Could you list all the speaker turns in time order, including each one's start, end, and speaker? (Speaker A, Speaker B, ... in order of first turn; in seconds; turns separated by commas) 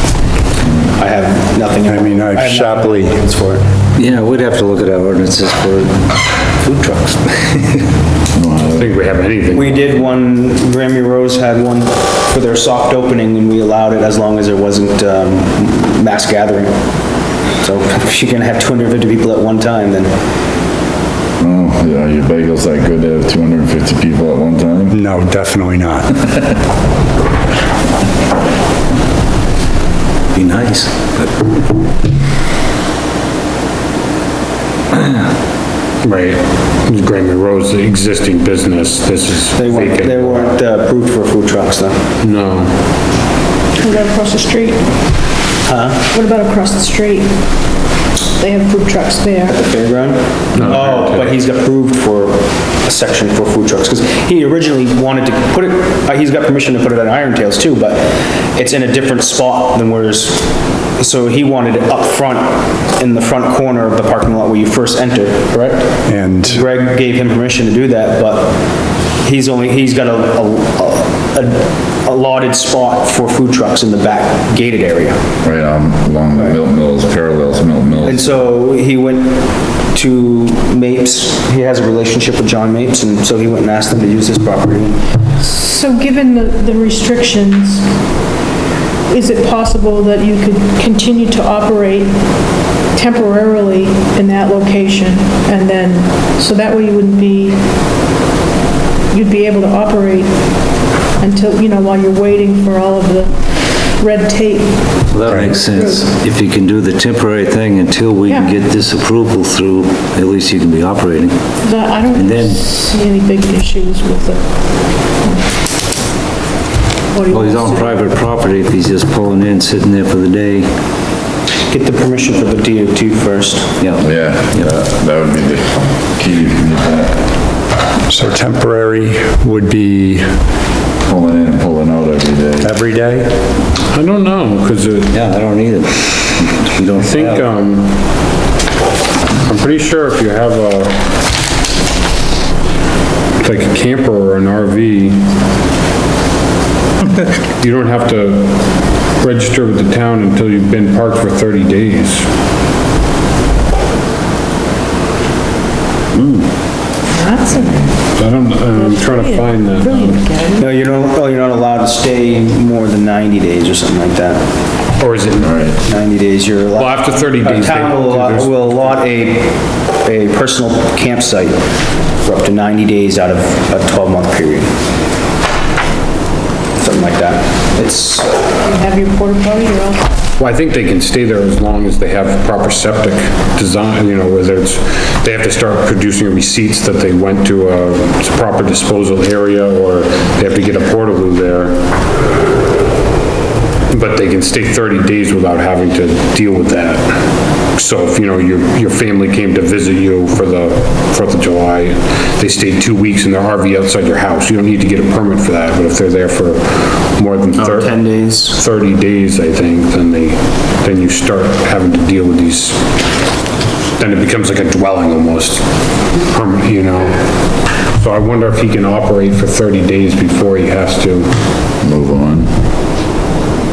Speaker A: 0.9-3.7, Speaker B: 1.9-3.2, Speaker C: 4.0-6.0, Speaker C: 6.6-7.9, Speaker D: 8.3-8.9, Speaker E: 8.6-10.2, Speaker A: 9.5-20.1, Speaker D: 21.4-24.9, Speaker B: 24.9-26.1, Speaker C: 30.3-31.4, Speaker E: 36.0-40.6, Speaker A: 39.6-42.0, Speaker E: 42.2-42.8, Speaker F: 43.8-44.9, Speaker A: 45.7-46.0, Speaker F: 46.1-47.3, Speaker F: 48.4-49.6, Speaker A: 49.5-75.2, Speaker E: 50.5-51.4, Speaker B: 66.1-66.6, Speaker D: 75.4-78.4, Speaker A: 78.0-85.0, Speaker F: 85.4-87.9, Speaker F: 89.1-97.6, Speaker F: 99.1-106.1, Speaker C: 105.1-112.7, Speaker F: 108.3-108.5, Speaker F: 111.6-114.4, Speaker F: 115.1-115.5, Speaker F: 117.1-118.0, Speaker C: 117.3-120.7, Speaker A: 121.7-123.8, Speaker C: 123.8-124.7, Speaker D: 124.0-127.2, Speaker B: 128.1-130.4, Speaker D: 131.0-132.7, Speaker B: 132.6-133.3, Speaker E: 133.9-135.2, Speaker C: 135.1-137.5, Speaker E: 137.0-138.0, Speaker E: 139.4-141.1, Speaker E: 143.4-145.3, Speaker E: 147.6-152.3, Speaker F: 157.1-158.0, Speaker E: 158.2-160.3, Speaker F: 158.7-160.7, Speaker A: 160.6-164.4, Speaker E: 165.0-165.7, Speaker D: 165.4-165.8, Speaker A: 165.8-171.6, Speaker E: 166.7-169.0, Speaker A: 172.2-174.7, Speaker A: 176.8-178.5, Speaker F: 178.6-180.1, Speaker E: 180.4-191.8, Speaker E: 193.9-212.9, Speaker A: 207.6-208.6, Speaker E: 214.0-217.3, Speaker E: 217.9-221.3, Speaker D: 221.8-222.5